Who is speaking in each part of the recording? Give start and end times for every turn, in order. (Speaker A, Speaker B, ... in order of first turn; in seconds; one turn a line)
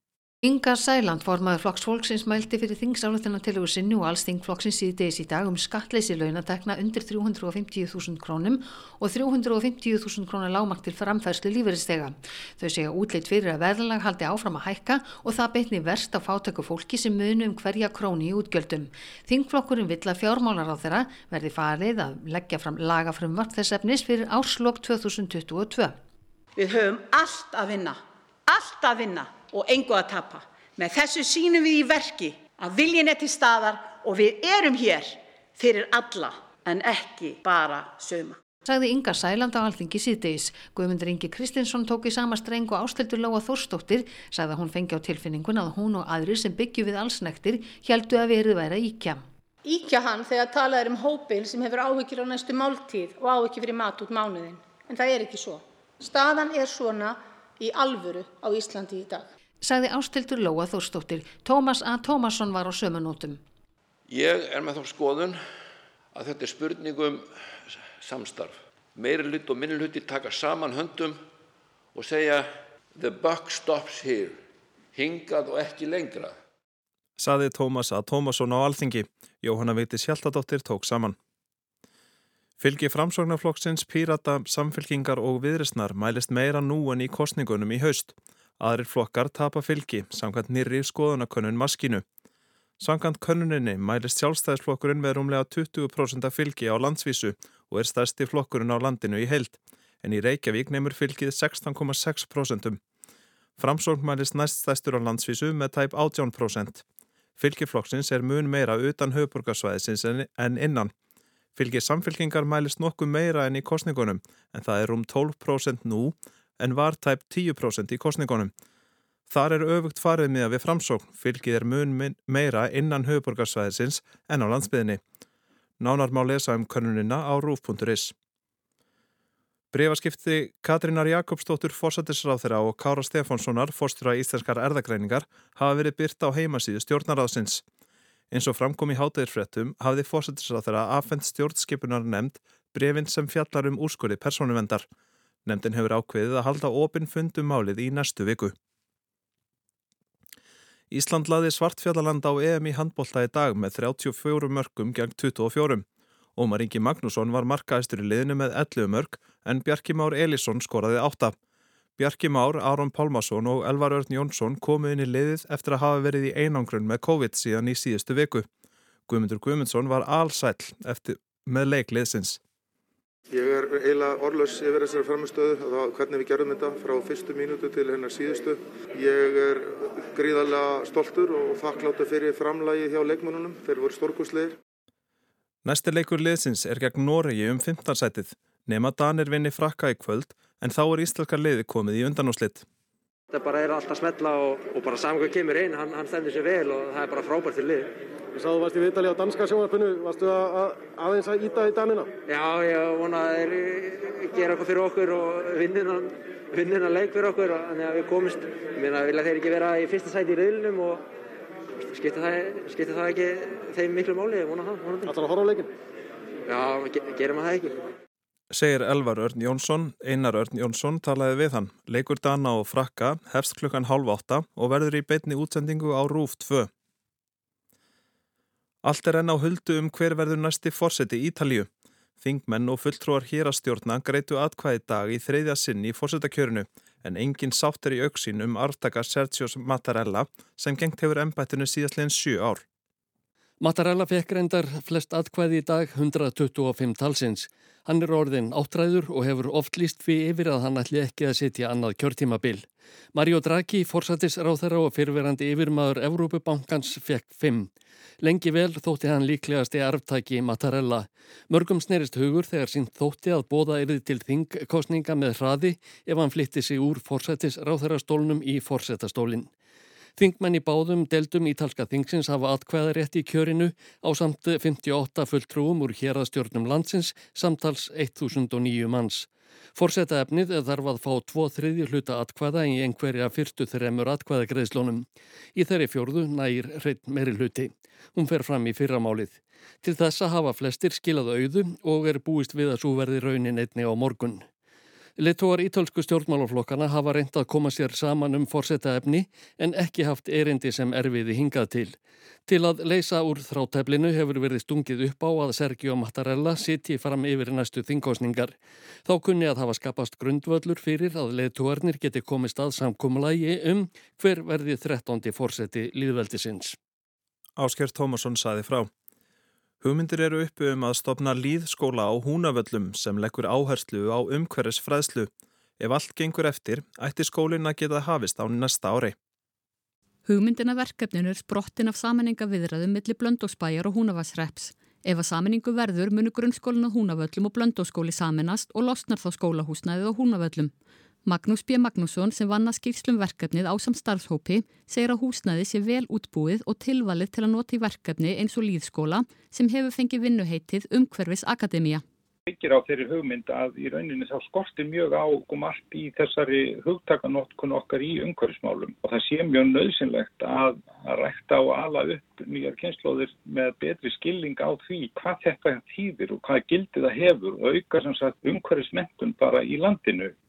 Speaker A: 0.4-26.0
Speaker B: 26.5-38.4
Speaker A: 38.6-49.2
Speaker C: 49.6-59.3
Speaker A: 59.6-63.4
Speaker D: 64.1-65.4
Speaker D: 66.1-71.2
Speaker D: 71.9-74.4
Speaker D: 74.9-76.3
Speaker E: 77.2-81.2
Speaker E: 82.6-92.0
Speaker E: 92.8-102.8
Speaker E: 103.6-106.8
Speaker E: 107.4-110.9
Speaker E: 111.5-118.5
Speaker E: 119.3-125.0
Speaker E: 125.8-128.1
Speaker E: 129.7-137.6
Speaker E: 138.3-144.9
Speaker E: 145.4-148.5
Speaker E: 150.9-155.8
Speaker E: 156.3-161.3
Speaker E: 162.0-168.5
Speaker E: 169.1-172.4
Speaker F: 173.3-184.5
Speaker E: 185.6-192.7
Speaker G: 193.3-197.9
Speaker H: 198.3-202.1
Speaker G: 202.2-211.0
Speaker G: 211.9-215.1
Speaker H: 215.0-215.7
Speaker G: 216.5-217.7
Speaker E: 218.5-226.7
Speaker E: 228.8-242.6
Speaker I: 243.6-269.5
Speaker I: 270.2-294.4
Speaker I: 295.2-316.8
Speaker E: 317.6-318.9
Speaker E: 319.8-329.1
Speaker J: 330.2-340.7
Speaker J: 341.2-352.0
Speaker K: 352.5-370.3